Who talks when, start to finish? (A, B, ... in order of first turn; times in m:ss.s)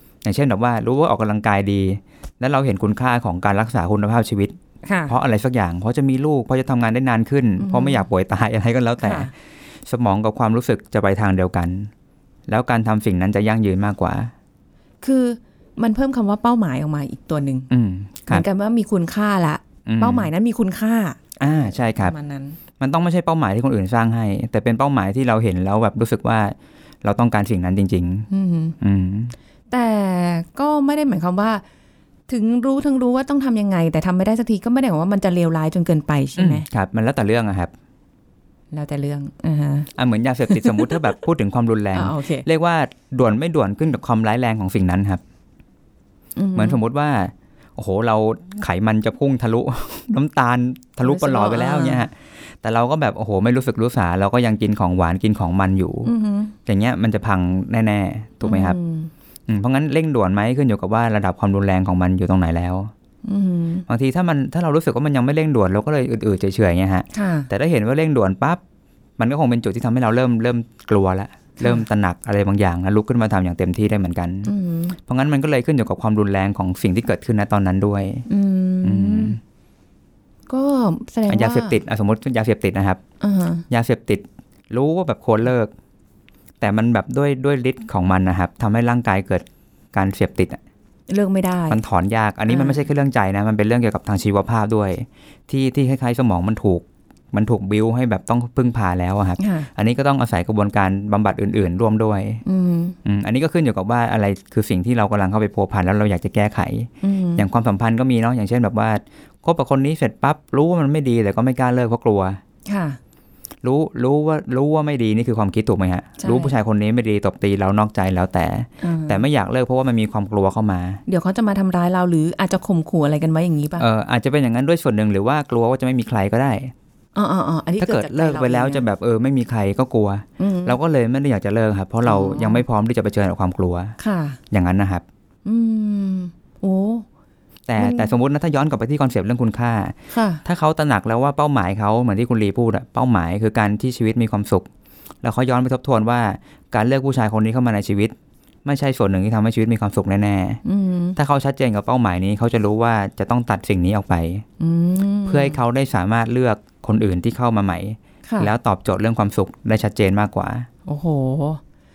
0:00.2-0:04.5 A
0:04.8-0:05.1 B
0:05.1-0:09.3 A
0:07.6-0:08.0 B
0:09.0-0:09.3 B
0:09.8-0:11.9 A
0:12.5-0:14.3 A
0:15.0-0:17.7 B
0:17.7-0:18.4 A
0:18.3-0:21.2 B
0:19.8-0:20.3 A
0:21.4-0:22.1 A
0:22.0-0:22.6 B
0:22.8-0:28.3 A
0:28.3-0:28.8 B
0:28.8-0:29.3 A
0:29.7-0:31.6 B
0:32.3-0:36.6 B
0:36.4-0:37.7 A
0:38.7-0:39.9 B
0:39.9-0:45.2 A
0:40.5-0:41.1 B
0:41.9-0:42.4 B
0:46.4-0:46.8 B
0:46.5-0:56.1 A
0:51.0-0:52.0 B
0:56.0-0:56.5 B
0:56.6-0:58.8 A
0:58.4-0:59.1 B
0:59.5-1:02.9 A
1:03.2-1:03.8 B
1:03.9-1:08.6 A
1:07.1-1:07.5 B
1:09.2-1:14.5 A
1:11.6-1:11.8 B
1:14.4-1:15.0 B
1:15.0-1:18.2 A
1:18.3-1:19.4 B
1:18.8-1:19.4 A
1:20.5-1:21.8 B
1:21.3-1:23.0 A
1:23.2-1:23.6 B
1:23.7-1:25.7 A
1:26.6-1:30.6 A
1:31.1-1:31.8 B
1:31.7-1:42.4 A
1:32.5-1:32.8 B
1:39.4-1:39.7 B
1:42.4-1:43.0 B
1:43.0-1:52.4 A
1:47.0-1:47.4 B
1:52.7-1:53.0 B
1:53.6-2:01.0 A
1:56.2-1:56.5 B
1:58.8-1:59.2 B
2:01.1-2:03.8 B
2:03.8-2:06.7 A
2:07.1-2:08.8 B
2:07.8-2:14.0 A
2:10.4-2:10.8 B
2:12.0-2:12.6 B
2:14.0-2:14.4 B
2:14.5-2:15.0 A
2:15.4-2:17.0 B
2:17.7-2:24.7 A
2:17.8-2:18.1 B
2:20.1-2:20.4 B
2:25.2-2:30.6 A
2:30.6-2:31.2 B
2:31.2-2:34.4 A
2:34.6-2:35.6 B
2:35.2-2:40.7 A
2:38.3-2:38.5 B
2:40.8-2:41.6 B